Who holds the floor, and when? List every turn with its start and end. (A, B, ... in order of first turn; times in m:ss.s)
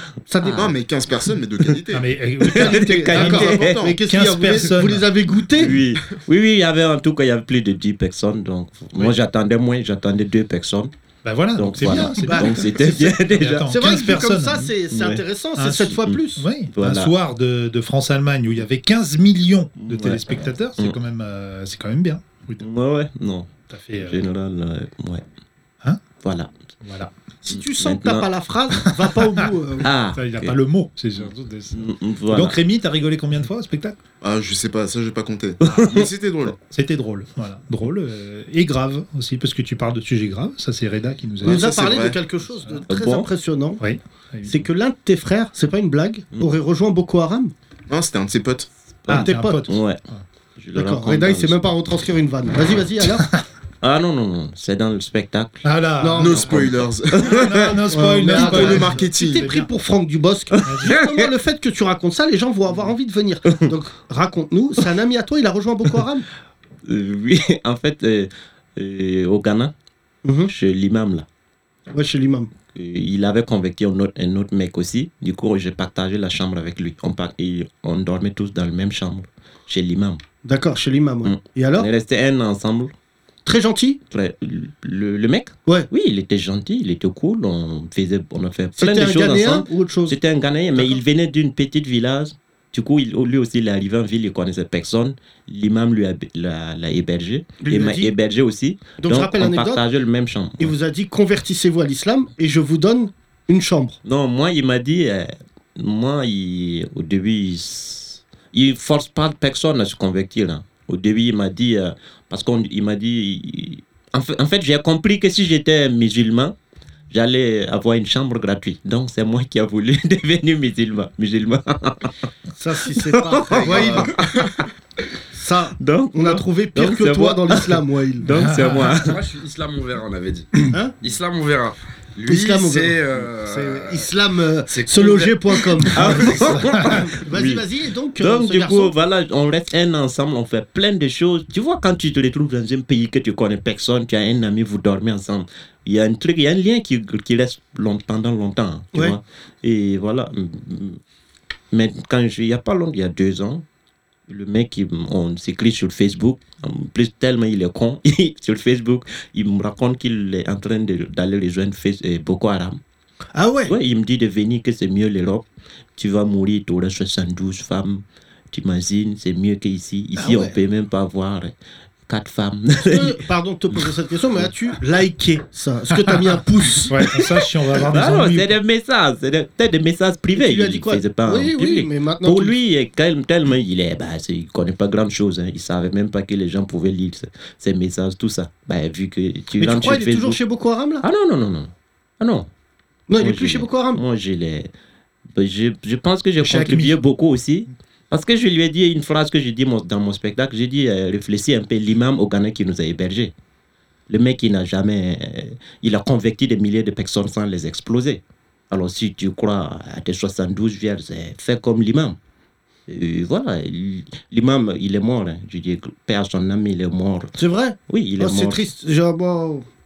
0:00.3-0:00.7 A
0:00.4-0:00.8 B
0:00.5-0:02.1 C
0:01.9-0:05.1 D
0:02.4-0:03.9 B
0:02.4-0:05.8 A
0:03.2-0:04.0 C
0:05.6-0:10.9 B
0:11.2-0:14.7 D
0:11.6-0:13.7 B
0:12.1-0:12.9 A
0:13.7-0:16.5 A
0:14.9-0:15.2 B
0:15.6-0:22.7 D
0:16.7-0:17.1 B
0:19.8-0:21.0 B
0:22.6-0:25.2 B
0:23.7-0:24.3 D
0:26.2-0:26.5 B
0:26.8-0:27.1 D
0:27.4-0:29.9 A
0:27.5-0:28.3 B
0:29.8-0:30.6 B
0:30.2-0:34.0 D
0:31.7-0:32.6 B
0:34.2-0:36.6 C
0:35.6-0:36.1 B
0:36.7-0:42.0 D
0:41.4-0:42.2 C
0:41.4-0:43.8 A
0:42.9-0:43.3 B
0:43.8-0:44.6 D
0:44.4-0:47.5 A
0:47.9-0:48.7 C
0:49.1-0:50.0 B
0:49.1-0:50.2 D
0:49.1-0:49.6 A
0:50.6-0:51.7 B
0:50.7-0:53.3 A
0:53.8-0:55.7 B
0:55.6-0:56.6 D
0:56.0-0:56.4 A
0:56.2-0:57.7 C
0:56.2-0:57.7 B
0:57.2-0:59.7 D
0:57.9-1:06.3 A
0:58.3-0:59.5 C
1:00.6-1:01.3 B
1:00.6-1:01.0 D
1:06.8-1:09.7 B
1:10.2-1:10.5 A
1:10.5-1:11.3 B
1:11.9-1:12.5 A
1:12.7-1:20.2 B
1:20.4-1:21.9 A
1:21.2-1:22.9 B
1:23.4-1:24.0 A
1:24.1-1:40.8 B
1:28.8-1:30.2 A
1:37.6-1:38.1 A
1:39.0-1:39.8 A
1:40.6-1:44.0 A
1:44.0-1:56.5 B
1:57.1-2:02.1 B
2:02.6-2:04.1 A
2:03.0-2:04.6 B
2:03.6-2:04.0 C
2:05.3-2:08.3 A
2:05.8-2:09.2 B
2:08.3-2:09.0 D
2:09.0-2:14.1 E
2:10.7-2:11.0 A
2:12.2-2:19.0 A
2:14.7-2:16.3 E
2:15.9-2:17.6 B
2:18.2-2:31.0 B
2:31.7-2:33.6 B
2:34.3-2:42.8 B
2:43.4-2:43.8 A
2:43.7-2:45.5 B
2:46.0-2:51.5 B
2:50.2-2:50.6 A
2:52.1-2:53.2 B
2:52.8-2:57.0 A
2:56.9-2:58.5 D
2:57.1-3:10.4 B
3:00.4-3:02.6 A
3:09.6-3:11.0 A
3:11.0-3:12.5 B
3:13.1-3:14.0 A
3:13.2-3:14.7 B
3:15.3-3:23.3 B
3:16.4-3:17.0 D
3:24.1-3:32.2 B
3:32.9-3:37.3 B
3:37.4-3:39.7 A
3:37.9-3:38.6 B